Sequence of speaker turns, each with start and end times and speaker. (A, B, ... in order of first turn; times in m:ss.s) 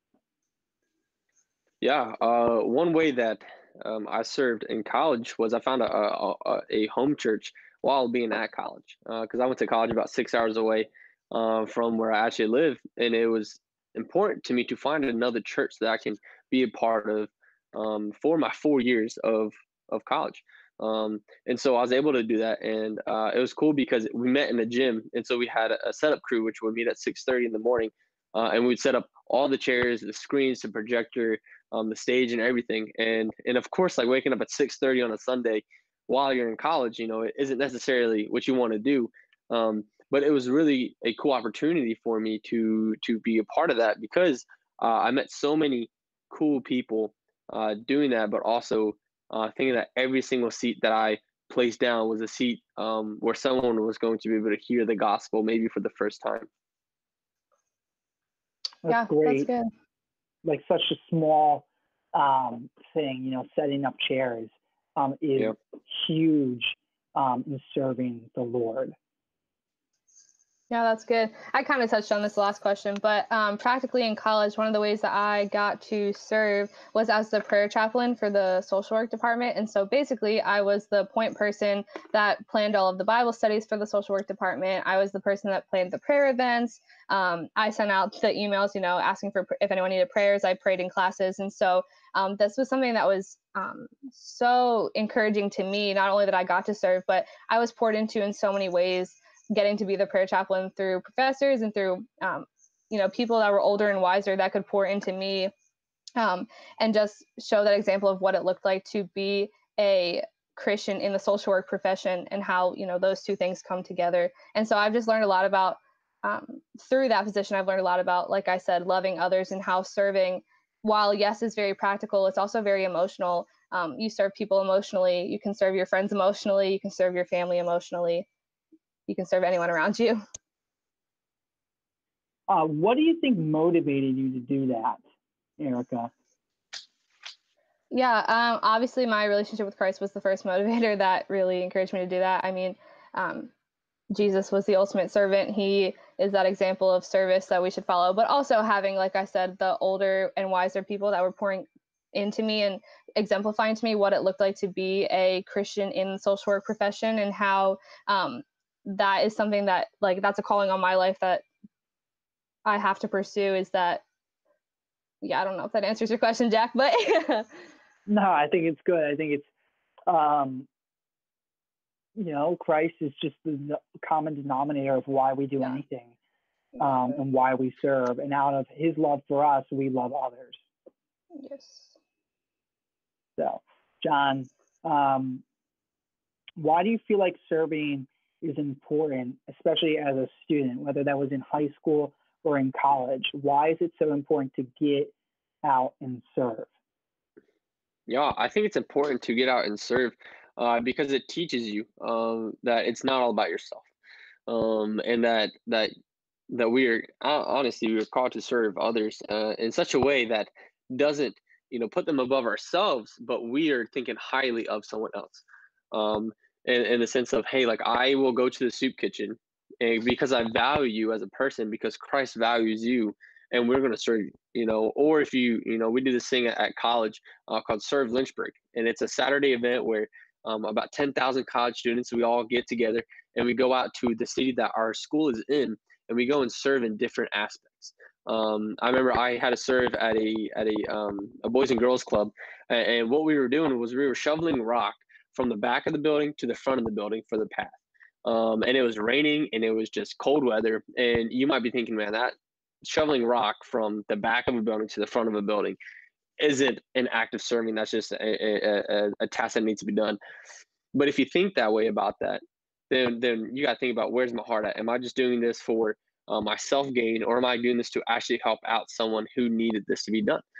0:01.8-0:56.5 A
0:58.8-0:59.5 B
0:58.9-0:59.7 C
1:00.4-1:09.0 B
1:10.7-1:45.5 C
1:46.2-2:08.3 C
2:09.1-2:10.2 C
2:12.5-2:15.0 B
2:15.6-2:16.1 B
2:17.9-2:23.5 C
2:24.1-2:41.4 C
2:42.6-2:44.0 C
2:45.2-2:47.5 C
2:48.1-2:49.5 B
2:50.1-2:50.7 B
2:52.2-2:56.2 B
2:56.8-2:57.2 C
2:56.8-3:00.6 B
3:01.3-3:02.0 C
3:03.4-3:05.4 B
3:06.6-3:15.1 B
3:15.6-3:16.7 B
3:18.1-3:23.9 A
3:24.5-3:25.9 A
3:26.5-4:15.8 A
4:16.4-4:20.2 A
4:20.9-4:30.4 A